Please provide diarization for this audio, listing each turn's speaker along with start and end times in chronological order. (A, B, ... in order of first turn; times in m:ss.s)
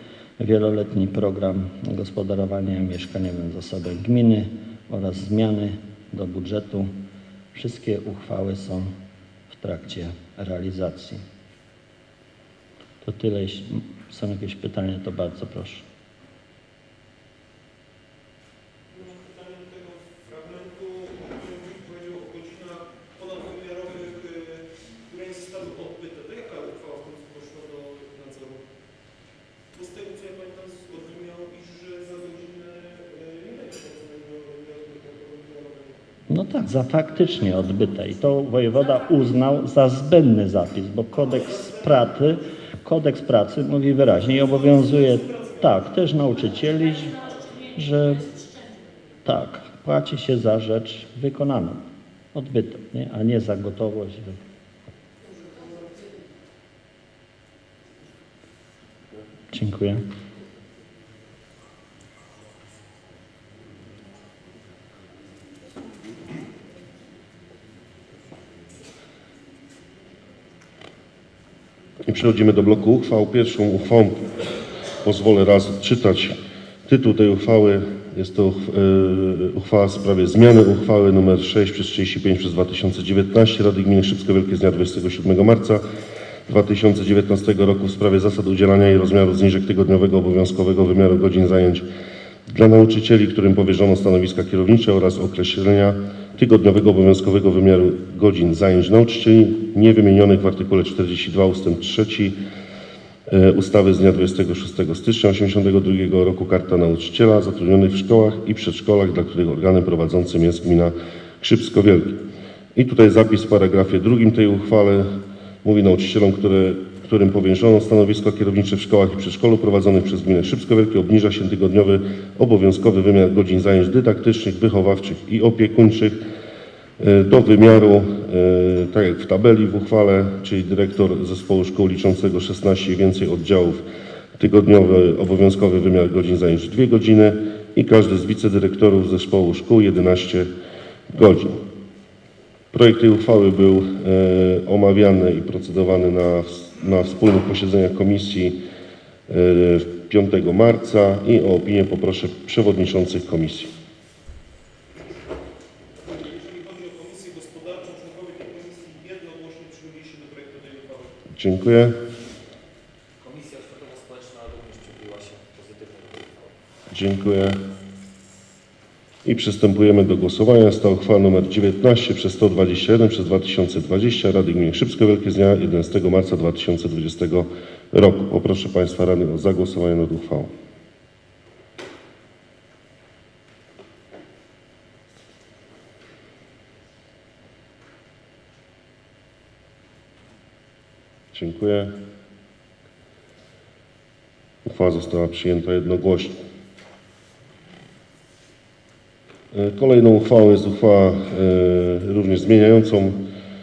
0:00.4-0:06.9 A
0:07.5-0:08.9 A
0:09.5-0:11.2 A
0:13.0-0:15.9 A
0:18.9-0:28.6 B
0:29.7-0:36.0 B
0:36.3-0:48.4 A
0:45.2-0:45.6 B
0:49.2-0:51.8 A
0:52.3-0:54.4 A
0:59.5-1:00.0 A
1:12.1-1:14.3 C
1:15.0-1:16.4 C
1:16.9-1:25.8 C
1:26.5-1:31.9 C
1:32.5-1:42.4 C
1:43.3-2:06.2 C
2:07.0-2:13.8 C
2:14.4-2:20.5 C
2:21.1-2:21.6 C
2:22.7-2:28.6 C
2:29.3-2:33.7 C
2:36.0-2:41.1 B
2:41.4-2:42.0 C
2:43.2-2:46.6 D
2:46.9-2:47.6 C
2:49.2-3:00.5 C
3:11.3-3:11.9 C
3:14.6-3:16.4 C
3:19.5-3:23.2 C